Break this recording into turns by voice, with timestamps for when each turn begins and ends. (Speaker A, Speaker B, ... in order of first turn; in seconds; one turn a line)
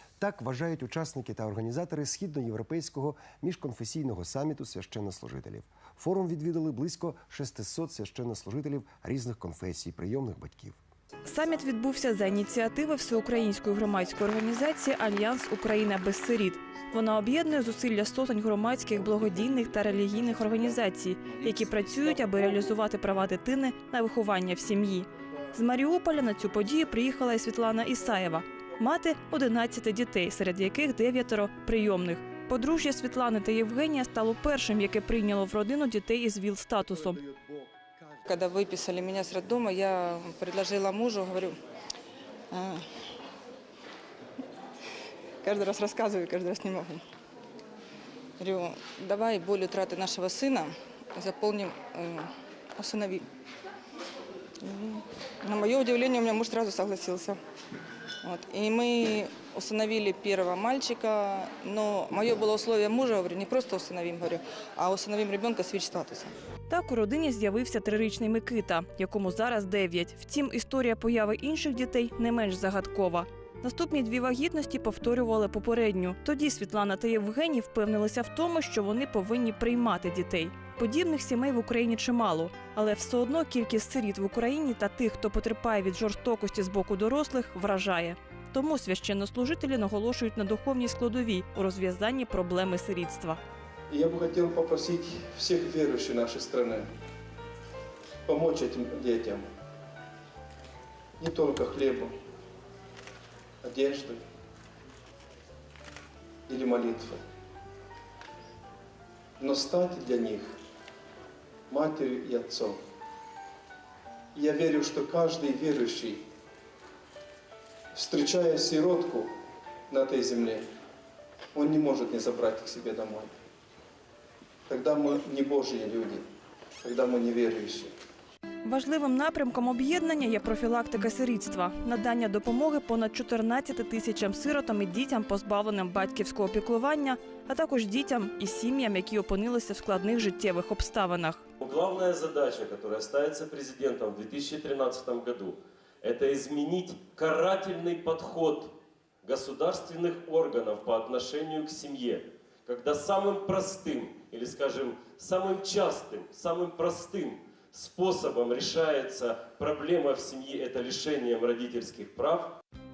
Speaker A: 0.2-10.8
Speaker B: 11.2-37.2
Speaker A: 37.4-37.7
Speaker C: 38.2-41.6
Speaker C: 42.5-42.8
Speaker C: 45.4-47.0
Speaker C: 48.4-53.3
Speaker C: 54.6-57.4
Speaker C: 58.2-66.3
Speaker B: 66.7-93.4
Speaker D: 93.9-96.8
Speaker D: 98.2-99.4
Speaker D: 101.2-102.1
Speaker D: 103.6-104.2
Speaker D: 106.5-107.2
Speaker D: 109.4-110.6
Speaker D: 111.7-112.8
Speaker D: 114.3-116.2
Speaker D: 117.9-119.3
Speaker D: 119.9-120.7
Speaker D: 121.5-123.3
Speaker D: 124.7-126.2
Speaker D: 126.8-127.9
Speaker B: 128.6-141.4
Speaker E: 141.6-148.7
Speaker E: 149.2-162.6